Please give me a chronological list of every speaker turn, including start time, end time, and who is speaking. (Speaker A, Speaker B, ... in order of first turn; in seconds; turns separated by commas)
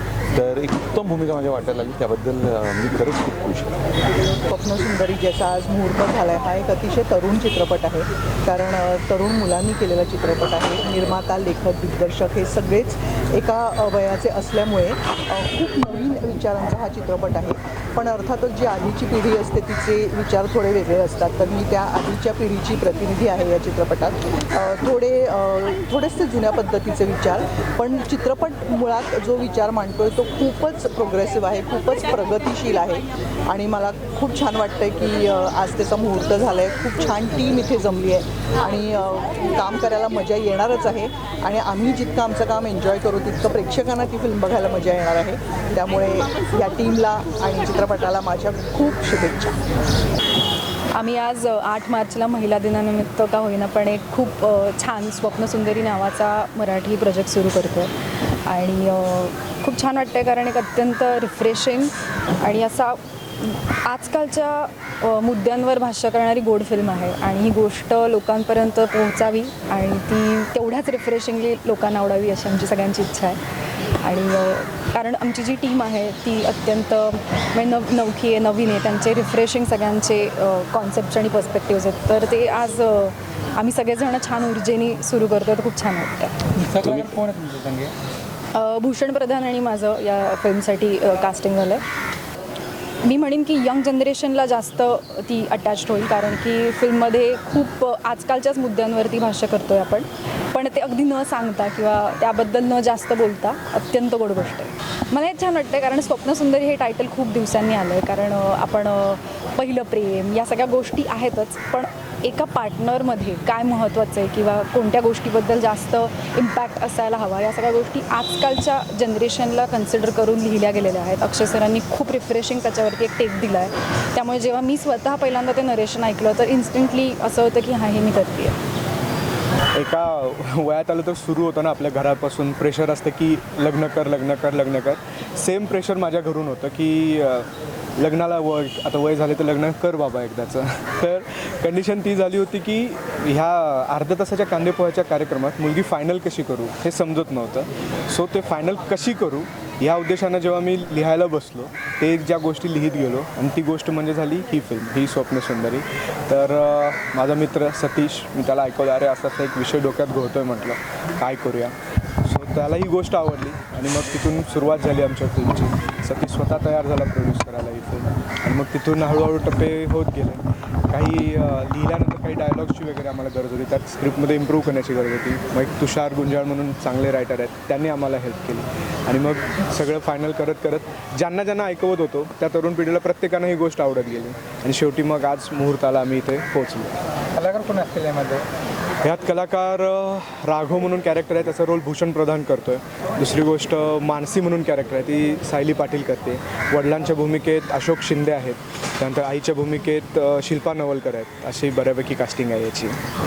Speaker A: 0.3-3.8, Speaker B: 4.5-49.6, Speaker C: 50.9-57.9, Speaker C: 58.5-73.4, Speaker C: 74.0-86.3, Speaker D: 86.6-87.9, Speaker C: 88.5-91.8, Speaker C: 93.0-128.6, Speaker E: 129.7-186.9, Speaker D: 187.3-188.4, Speaker E: 189.0-203.0